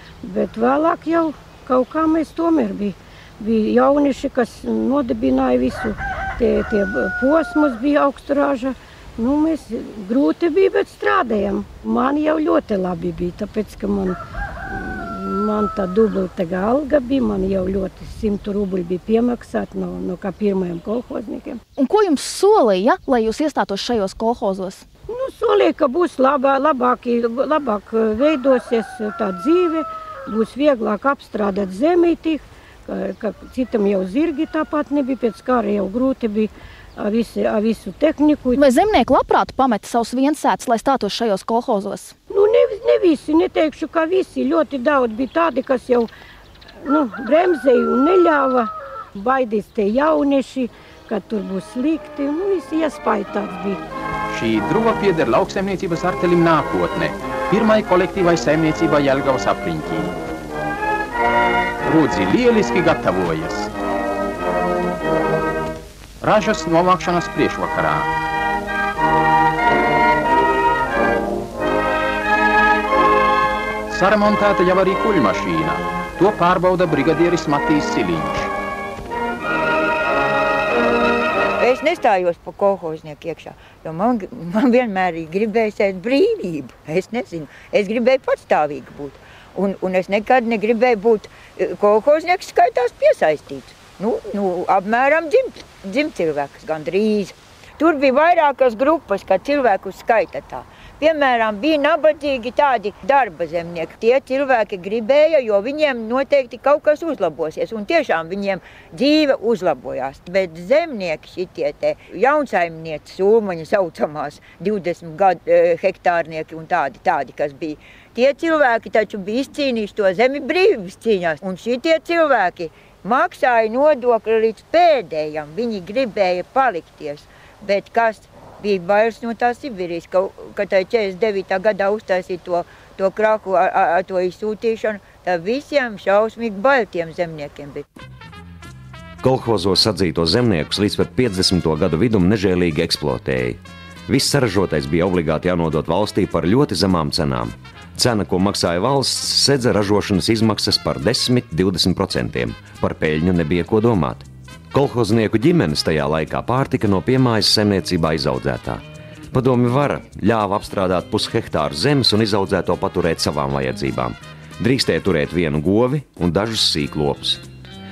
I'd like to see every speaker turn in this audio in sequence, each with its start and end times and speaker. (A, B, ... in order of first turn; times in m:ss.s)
0:00.2-0:21.6 A
0:21.8-0:24.8 B
0:25.1-0:38.6 A
0:38.6-0:42.2 B
0:42.3-0:46.1 A
0:46.8-0:53.8 A
0:54.3-1:00.1 C
1:01.8-1:03.7 C
1:06.2-1:08.1 C
1:13.9-1:18.5 C
1:21.6-2:17.8 D
2:19.2-2:47.4 E